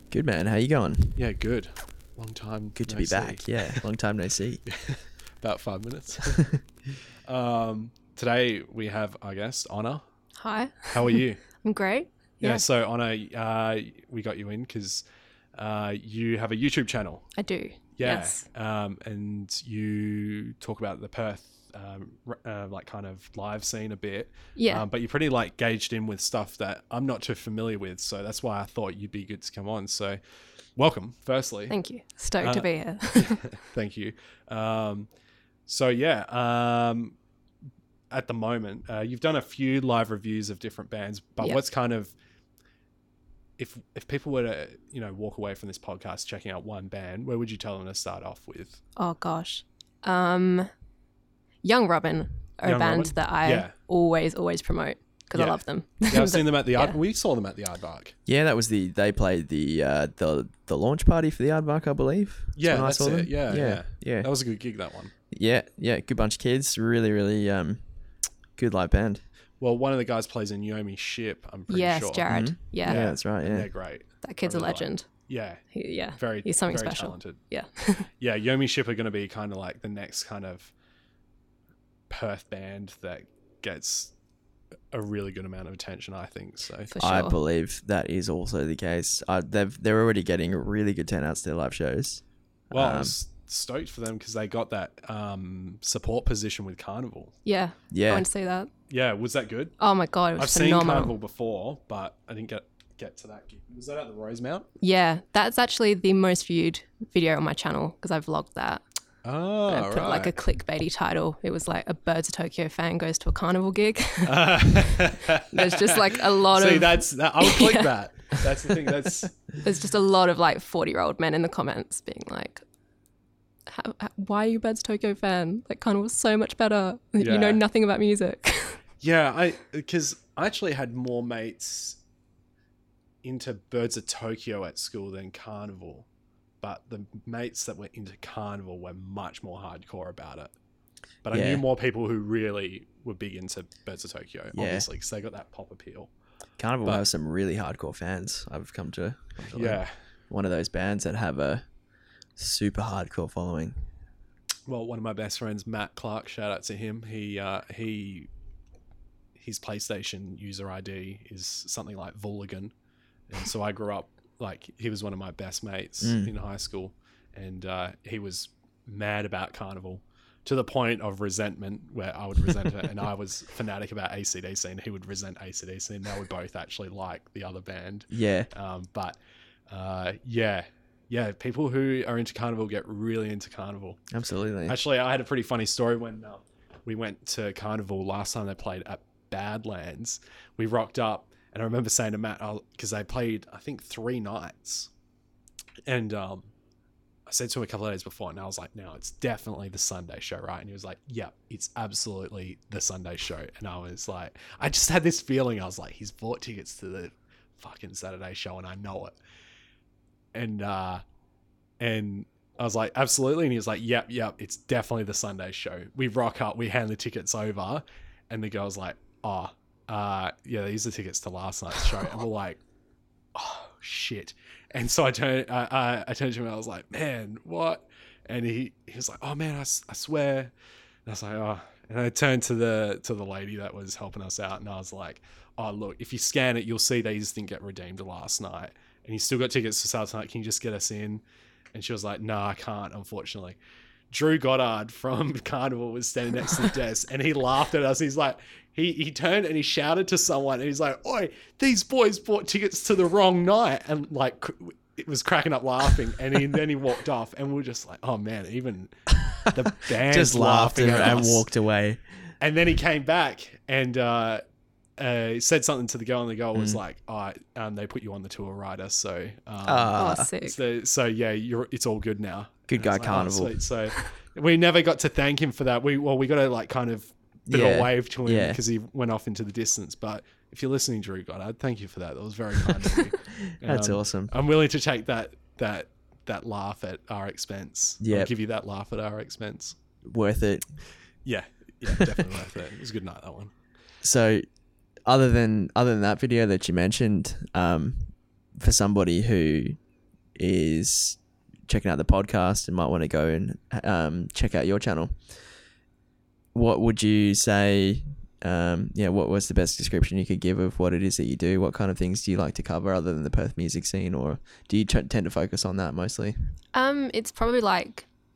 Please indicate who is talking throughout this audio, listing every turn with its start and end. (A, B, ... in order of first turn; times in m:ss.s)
0:00.1-0:01.2 A
0:01.2-0:03.8 B
0:02.8-0:04.6 A
0:04.7-0:06.5 B
0:07.3-0:10.0 B
0:10.4-0:12.6 C
0:10.9-0:11.4 B
0:12.4-0:15.0 B
0:15.6-0:17.3 B
0:17.4-0:18.4 C
0:18.0-0:30.2 B
0:24.6-0:24.8 C
0:30.8-0:31.8 B
0:31.7-0:33.5 C
0:32.4-0:35.1 B
0:35.7-0:37.2 B
0:38.1-0:42.1 B
0:43.6-0:48.8 B
0:49.0-0:50.7 C
0:51.6-0:57.0 C
0:52.6-0:53.7 B
0:55.4-0:58.2 B
0:58.3-1:04.3 A
1:02.6-1:05.1 B
1:05.3-1:07.8 A
1:08.6-1:09.2 A
1:09.6-1:15.6 B
1:11.7-1:13.0 C
1:12.3-1:13.7 A
1:14.2-1:15.1 C
1:15.7-1:18.1 C
1:16.2-1:17.4 B
1:18.2-1:20.7 B
1:22.1-1:24.1 B
1:24.9-1:26.9 B
1:26.9-1:27.4 C
1:27.0-1:33.2 A
1:32.7-1:37.4 B
1:37.4-1:38.7 C
1:37.9-1:38.3 A
1:38.9-1:39.8 B
1:39.8-1:41.1 C
1:40.4-1:44.7 B
1:44.8-1:48.8 C
1:49.2-1:50.3 B
1:49.7-1:57.9 C
1:54.2-1:59.4 B
1:59.6-2:02.6 C
2:03.7-2:08.8 C
2:07.2-2:07.6 B
2:09.0-2:12.0 B
2:13.2-2:16.1 B
2:16.6-2:20.5 B
2:21.2-2:26.1 B
2:21.3-2:21.6 A
2:24.5-2:24.9 A
2:26.6-2:31.6 A
2:29.5-2:29.9 B
2:32.4-2:33.8 A
2:34.7-2:38.3 B
2:39.4-2:42.7 B
2:43.3-2:59.2 B
2:46.0-2:46.3 A
2:58.1-2:58.5 A
2:59.7-3:04.0 B
3:04.1-3:04.8 A
3:04.7-3:14.9 B
3:15.9-3:16.5 B
3:17.3-3:29.2 B
3:30.3-3:31.0 B
3:31.8-3:42.6 B
3:43.4-3:50.5 B
3:51.1-4:01.2 B
4:01.7-4:03.6 B
4:04.1-4:21.5 B
4:20.0-4:22.0 A
4:22.4-4:24.4 B
4:25.0-4:49.8 B
4:26.6-4:26.8 A
4:29.6-4:30.3 A
4:30.0-4:30.6 C
4:32.7-4:33.7 A
4:37.5-4:38.6 A
4:43.5-4:44.3 A
4:48.0-4:48.3 A
4:50.0-4:50.8 A
4:51.2-4:53.5 B
4:54.0-4:54.4 A
4:55.1-4:59.8 A
5:00.4-5:05.2 A
5:06.5-5:16.5 A
5:16.7-5:18.1 C